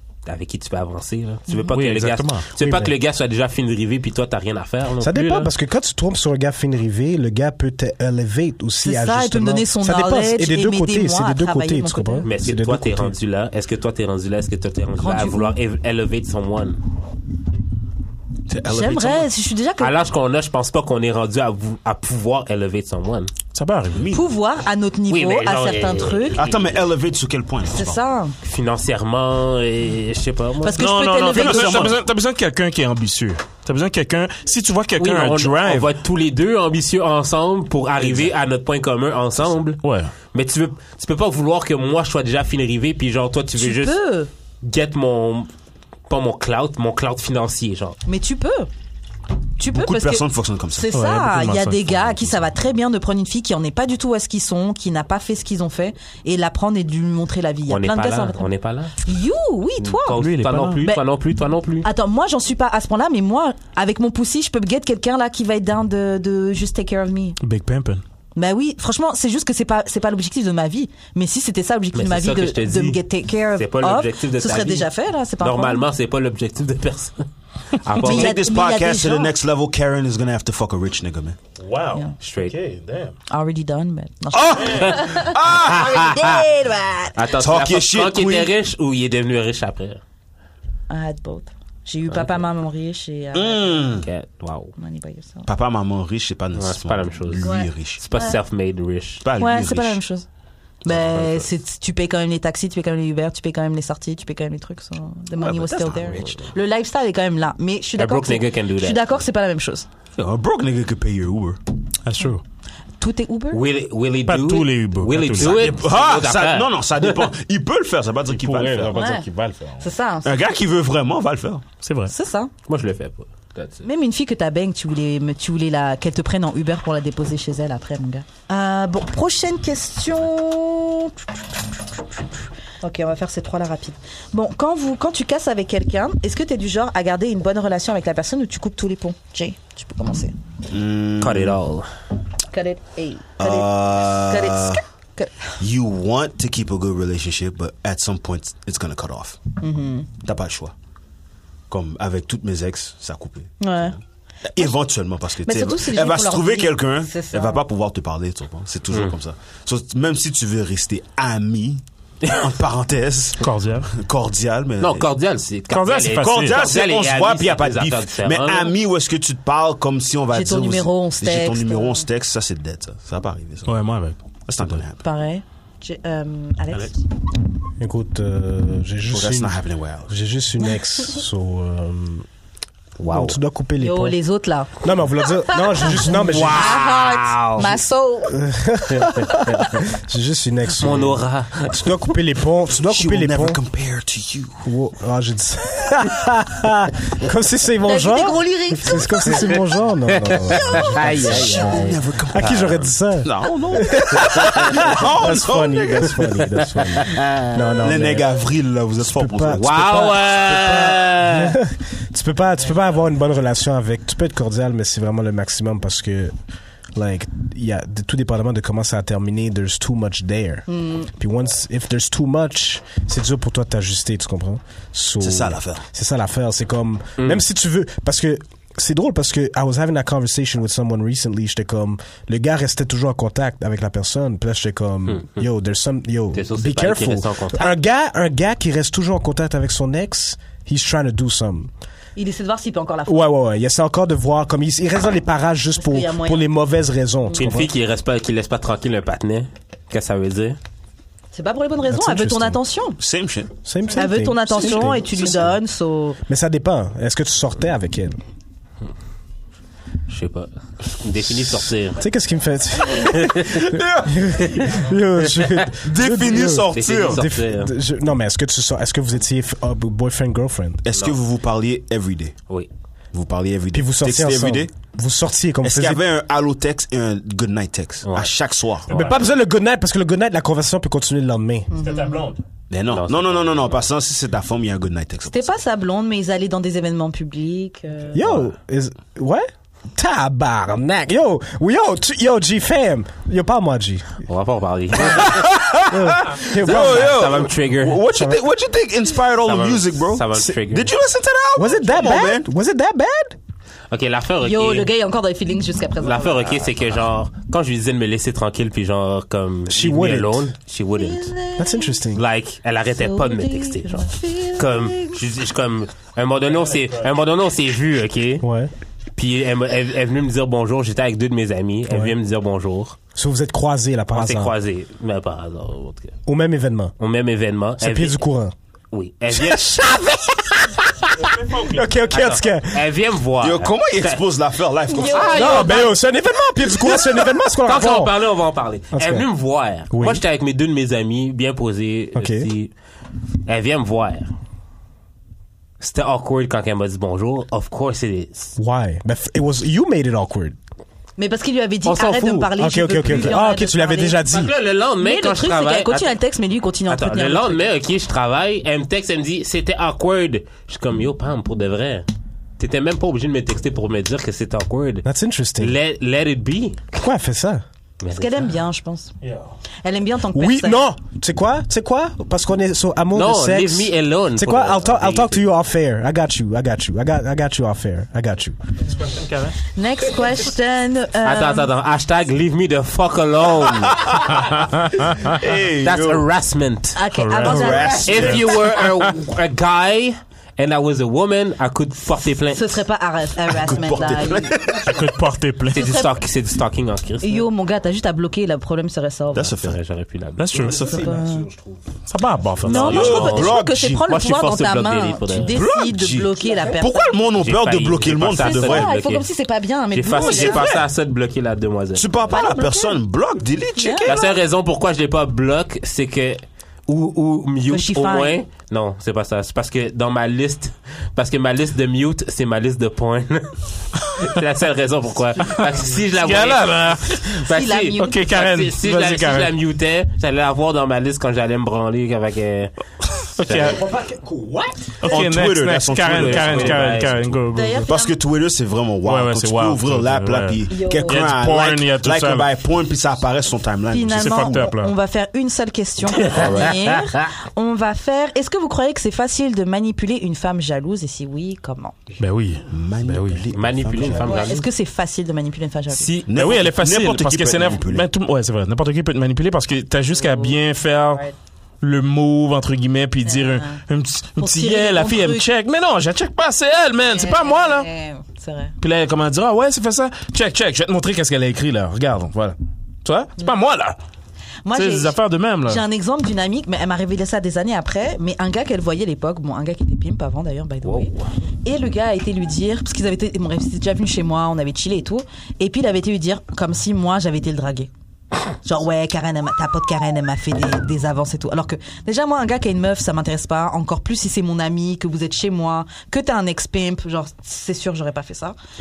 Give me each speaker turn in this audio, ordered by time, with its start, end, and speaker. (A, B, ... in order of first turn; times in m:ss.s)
0:00.3-0:05.5 A
0:01.7-0:02.5 B
0:02.6-0:02.9 C
0:05.0-0:13.2 C
0:08.8-0:12.3 D
0:12.2-0:16.8 A
0:15.0-0:15.6 D
0:18.5-0:19.3 E
0:18.7-0:19.9 D
0:19.8-0:23.3 A
0:23.5-0:24.1 B
0:23.9-0:24.3 E
0:24.1-0:26.4 D
0:25.1-0:26.8 A
0:26.4-0:28.0 E
0:27.7-0:28.4 D
0:28.4-0:30.8 A
0:30.6-0:32.0 D
0:30.7-0:35.9 B
0:31.3-0:32.0 E
0:35.0-0:39.8 A
0:39.8-0:40.1 B
0:40.3-0:44.0 A
0:43.6-0:44.3 D
0:44.6-0:45.5 A
0:46.1-0:48.0 A
0:48.1-0:48.7 D
0:49.6-0:58.5 D
0:49.7-0:51.0 E
0:50.9-0:52.5 B
0:57.7-0:59.0 A
0:59.0-1:00.2 D
0:59.8-1:01.9 A
1:00.1-1:00.9 B
1:01.8-1:07.4 D
1:07.4-1:08.0 B
1:08.4-1:15.9 D
1:11.9-1:13.0 A
1:13.5-1:17.2 A
1:17.8-1:18.4 A
1:18.0-1:21.4 E
1:18.0-1:19.3 D
1:21.6-1:23.2 B
1:22.2-1:22.6 A
1:23.3-1:27.2 D
1:24.3-1:26.4 E
1:24.7-1:25.0 B
1:24.8-1:26.4 A
1:27.2-1:30.0 A
1:27.3-1:28.5 E
1:30.9-1:34.0 D
1:32.1-1:32.4 A
1:33.3-1:34.1 E
1:34.0-1:34.7 A
1:34.8-1:35.5 D
1:35.5-1:38.0 E
1:36.6-1:39.2 A
1:37.4-1:38.4 D
1:39.2-1:40.0 E
1:39.4-1:40.3 D
1:40.8-1:49.9 D
1:40.9-1:41.3 A
1:45.4-1:46.5 E
1:48.0-1:49.1 A
1:50.2-1:51.6 E
1:52.0-1:52.4 B
1:53.0-1:53.6 D
1:53.5-1:57.3 A
1:54.3-1:55.8 B
1:55.4-1:59.1 E
1:58.3-1:59.9 B
1:58.9-1:59.3 D
1:59.8-2:00.4 D
2:00.2-2:01.7 E
2:01.8-2:02.1 B
2:02.1-2:02.5 D
2:02.7-2:03.9 A
2:03.8-2:20.4 D
2:20.7-2:21.6 E
2:21.2-2:21.9 A
2:22.5-2:25.6 D
2:23.4-2:24.8 E
2:25.6-2:29.4 E
2:29.6-2:30.1 D
2:30.2-2:30.7 E
2:31.7-2:34.0 E
2:33.6-2:34.0 D
2:34.5-2:45.1 E
2:35.4-2:37.6 D
2:43.4-2:43.9 B
2:44.8-2:48.7 A
2:45.7-2:46.7 B
2:46.2-2:53.8 E
2:50.3-2:52.1 D
2:53.7-2:54.8 B
2:54.5-2:55.0 E
2:55.0-2:57.0 D
2:57.8-3:02.3 C
2:59.1-3:00.1 E
3:03.0-3:03.4 A
3:03.1-3:04.2 C
3:03.8-3:08.4 D
3:04.8-3:06.8 C
3:06.0-3:07.8 A
3:08.2-3:13.6 C
3:10.8-3:11.9 A
3:12.7-3:14.6 E
3:14.6-3:28.4 C
3:17.8-3:19.6 D
3:20.1-3:22.7 A
3:21.2-3:26.7 E
3:26.8-3:27.8 A
3:27.8-3:30.1 E
3:29.0-3:36.3 C
3:29.5-3:31.6 A
3:36.9-4:01.7 C
3:40.7-3:41.1 D
3:45.2-3:45.8 E
3:47.2-3:47.4 A
3:56.3-3:57.7 A
4:02.2-4:03.3 D
4:03.1-4:07.7 C
4:05.8-4:06.5 D
4:07.3-4:10.6 A
4:11.3-4:13.0 D
4:11.9-4:12.6 C
4:13.0-4:13.5 E
4:13.6-4:15.5 C
4:13.9-4:16.2 D
4:14.6-4:15.3 E
4:16.3-4:18.2 C
4:20.1-4:22.0 A
4:22.0-4:30.8 C
4:23.2-4:23.7 A
4:23.6-4:24.2 E
4:25.8-4:27.2 E
4:26.3-4:27.7 A
4:30.8-4:32.4 E
4:30.9-4:31.2 A
4:33.1-4:34.7 E
4:33.7-4:36.0 C
4:35.6-4:39.1 E
4:38.0-4:38.3 A
4:38.9-4:39.2 A
4:38.9-4:41.7 C
4:41.7-4:42.3 D
4:41.7-4:42.4 B
4:42.7-4:45.5 E
4:42.9-4:43.9 A
4:45.2-4:48.4 D
4:48.1-4:54.2 C
4:54.3-4:55.5 A
4:55.0-5:02.5 E
4:55.9-4:57.3 C
4:56.5-4:58.0 A
4:58.1-4:58.5 C
4:59.4-5:00.9 A
5:01.6-5:03.4 C
5:03.9-5:04.9 A
5:04.4-5:06.6 D
5:06.0-5:11.4 A
5:09.7-5:10.5 C
5:11.0-5:12.0 D
5:11.6-5:12.2 C
5:12.1-5:18.4 A
5:12.9-5:15.2 D
5:16.5-5:17.0 B
5:18.4-5:18.7 C
5:19.2-5:23.0 A
5:23.2-5:24.5 C
5:24.1-5:26.2 A
5:26.3-5:26.9 C
5:27.0-5:28.2 A
5:27.8-5:28.5 C
5:28.9-5:29.9 A
5:29.3-5:32.9 C
5:31.2-5:31.9 B
5:32.1-5:34.2 A
5:33.4-5:35.8 E
5:34.9-5:35.9 D
5:35.0-5:35.9 A
5:35.3-5:38.2 C
5:36.8-5:42.7 A
5:38.9-5:39.3 C
5:39.9-5:40.2 C
5:42.2-5:42.5 C
5:43.5-5:44.3 A
5:45.8-5:48.6 A
5:48.6-5:50.6 C
5:51.2-5:54.2 D
5:51.8-5:52.5 A
5:52.6-5:54.5 C
5:54.3-5:56.2 A
5:55.0-5:57.7 D
5:56.9-6:02.1 A
6:02.6-6:05.0 A
6:05.0-6:05.8 C
6:05.6-6:06.9 A
6:07.0-6:07.6 C
6:08.0-6:08.6 A
6:08.1-6:09.1 D
6:09.2-6:09.5 B
6:09.8-6:10.8 D
6:10.3-6:18.6 C
6:13.1-6:15.5 A
6:18.9-6:19.6 B
6:19.7-6:21.7 D
6:21.2-6:24.1 A
6:23.6-6:24.6 E
6:24.5-6:25.3 B
6:25.2-6:26.2 E
6:25.8-6:27.0 A
6:27.0-6:28.6 D
6:27.1-6:29.1 B
6:27.4-6:28.8 E
6:28.0-6:32.8 A
6:32.5-6:34.6 D
6:33.5-6:35.0 E
6:34.7-6:36.0 B
6:35.7-6:36.2 D
6:35.7-6:37.5 A
6:37.2-6:39.5 D
6:39.3-6:39.8 E
6:39.3-6:40.6 A
6:40.4-6:43.3 B
6:40.6-6:41.2 E
6:40.6-6:41.5 D
6:42.6-6:47.2 D
6:42.6-6:45.6 A
6:42.7-6:44.1 E
6:45.5-6:48.9 E
6:47.3-6:49.3 A
6:48.3-6:50.7 D
6:49.9-6:52.1 A
6:50.2-6:50.8 B
6:50.3-6:50.8 E
6:52.0-6:54.4 E
6:52.3-6:53.0 D
6:53.8-6:54.2 D
6:54.0-7:06.7 A
6:57.7-6:58.4 D
7:05.5-7:07.4 B
7:07.3-7:12.7 A
7:07.4-7:08.4 D
7:08.0-7:09.5 B
7:13.4-7:13.9 B
7:13.4-7:13.8 A
7:13.5-7:15.0 C
7:15.0-7:17.9 B
7:15.1-7:17.0 E
7:15.9-7:17.4 A
7:17.5-7:18.2 D
7:17.9-7:24.7 E
7:19.0-7:22.5 B
7:20.7-7:21.2 D
7:23.9-7:32.0 D
7:24.1-7:25.0 B
7:26.1-7:27.3 A
7:32.2-7:33.5 B
7:32.7-7:34.5 E
7:33.5-7:34.7 A
7:34.2-7:36.2 D
7:35.9-7:36.3 A
7:36.3-7:38.1 E
7:36.3-7:41.2 B
7:40.2-7:40.6 D
7:41.8-7:47.9 B
7:43.2-7:43.8 D
7:44.4-7:45.5 D
7:47.1-7:48.8 D
7:48.8-7:54.0 B
7:54.6-8:07.9 D
7:54.7-7:55.8 B
8:00.8-8:01.3 A
8:08.6-8:18.6 D